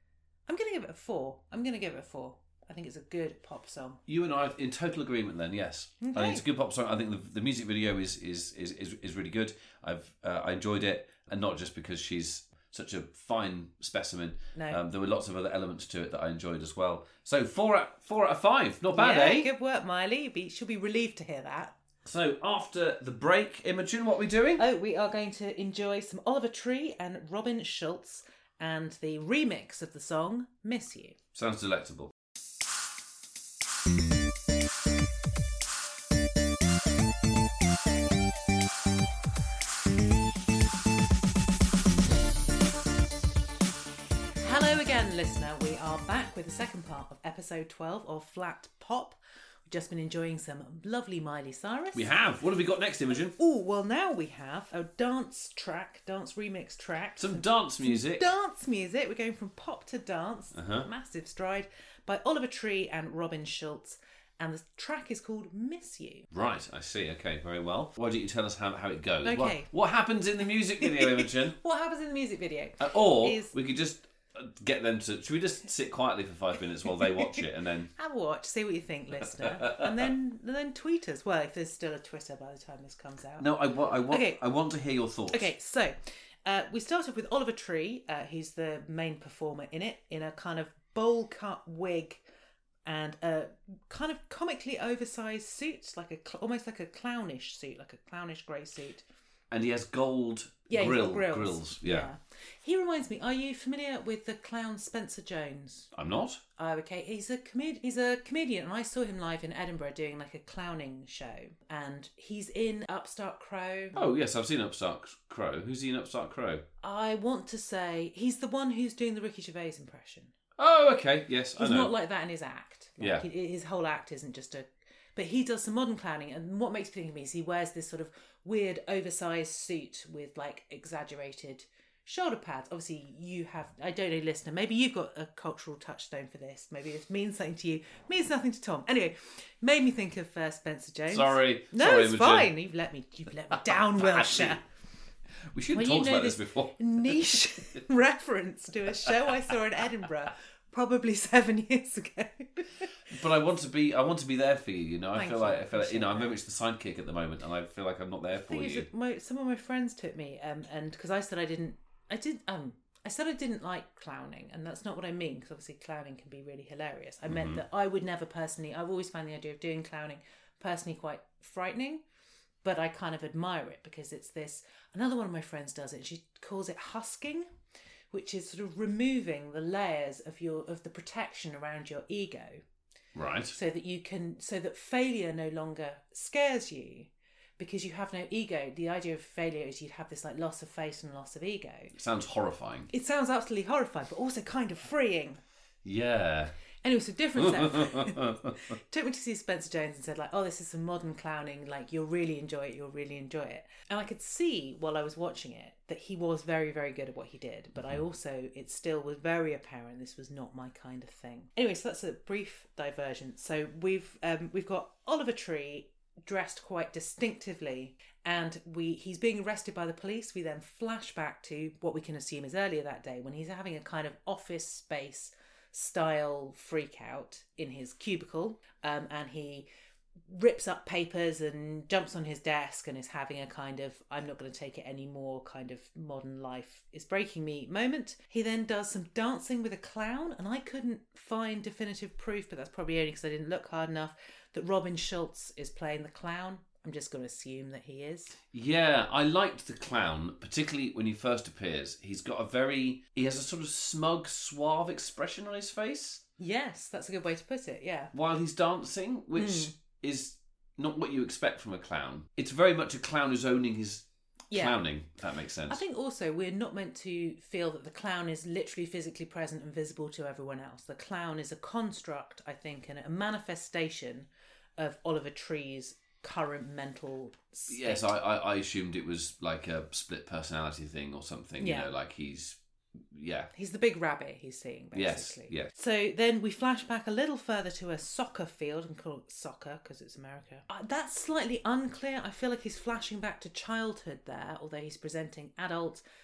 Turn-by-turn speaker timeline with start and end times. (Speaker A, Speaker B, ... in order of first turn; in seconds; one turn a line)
Speaker A: 0.5-4.0
Speaker B: 4.1-19.5
Speaker A: 6.0-6.5
Speaker A: 14.6-14.8
Speaker A: 18.9-21.8
Speaker B: 22.1-24.6
Speaker A: 24.6-31.2
Speaker B: 31.3-32.1
Speaker A: 44.4-52.1
Speaker B: 51.9-53.4
Speaker A: 53.4-66.3
Speaker B: 57.2-58.3
Speaker B: 60.5-60.9
Speaker B: 66.3-71.6
Speaker A: 69.2-69.7
Speaker A: 70.8-73.5
Speaker B: 72.8-77.9
Speaker A: 76.9-77.4
Speaker A: 78.0-83.5
Speaker B: 79.2-80.1
Speaker B: 83.4-85.5
Speaker A: 84.1-84.4
Speaker A: 85.3-92.2
Speaker A: 92.8-99.0
Speaker B: 99.5-102.1
Speaker A: 100.7-105.9
Speaker B: 105.9-106.4
Speaker A: 106.6-114.0
Speaker B: 114.0-116.6
Speaker A: 116.8-120.3
Speaker B: 120.6-121.9
Speaker A: 121.6-144.6
Speaker B: 123.0-123.3
Speaker B: 141.1-142.5
Speaker B: 143.7-144.6
Speaker B: 145.5-147.8
Speaker A: 145.7-153.1
Speaker B: 153.1-158.9
Speaker A: 155.2-156.3
Speaker A: 158.4-172.0
Speaker B: 167.3-167.6
Speaker A: 172.6-177.5
Speaker A: 178.1-182.6
Speaker B: 183.2-183.6
Speaker A: 183.5-191.9
Speaker B: 191.9-192.9
Speaker A: 192.9-195.4
Speaker B: 195.8-196.5
Speaker A: 196.8-229.7
Speaker B: 197.4-198.6
Speaker A: 230.3-248.4
Speaker B: 248.5-256.2
Speaker A: 256.4-258.1
Speaker B: 258.1-265.8
Speaker A: 259.4-259.7
Speaker A: 264.5-264.8
Speaker A: 265.7-278.1
Speaker B: 277.7-282.6
Speaker A: 281.6-281.9
Speaker B: 283.1-283.5
Speaker A: 283.5-296.0
Speaker B: 284.9-285.7